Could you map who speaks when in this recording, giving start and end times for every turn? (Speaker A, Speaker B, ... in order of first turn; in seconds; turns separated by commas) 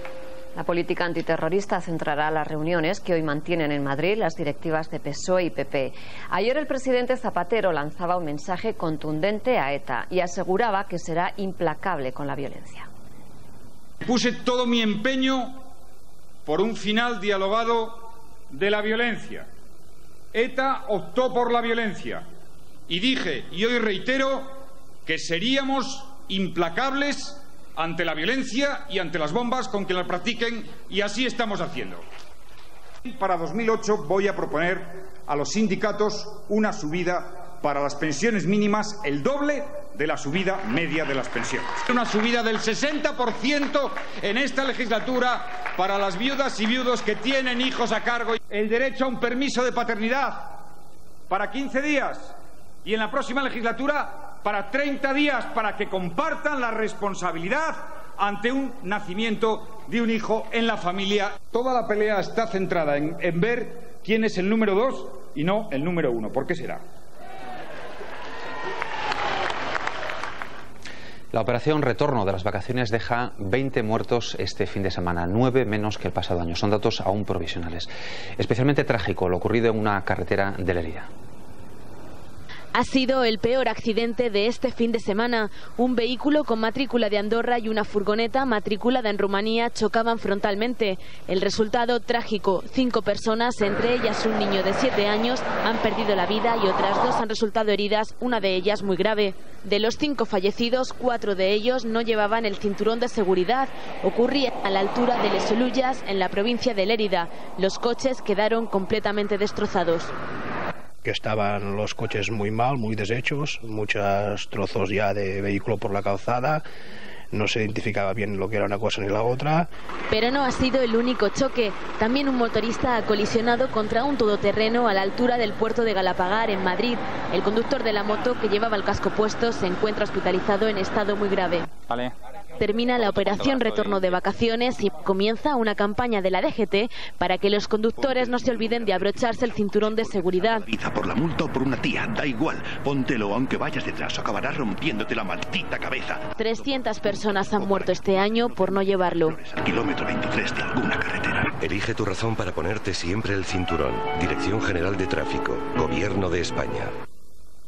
Speaker A: 0.5-12.9, Speaker B: 14.0-15.7, Speaker B: 16.4-19.5, Speaker B: 20.3-22.3, Speaker B: 22.9-32.0, Speaker B: 33.0-50.6, Speaker B: 51.3-66.8, Speaker C: 71.3-81.1, Speaker D: 82.7-110.1, Speaker E: 111.0-116.5, Speaker E: 117.7-119.4, Speaker D: 120.1-131.7, Speaker D: 132.6-140.7, Speaker E: 140.7-146.2, Speaker D: 146.4-149.4, Speaker E: 149.4-151.5, Speaker F: 151.6-156.9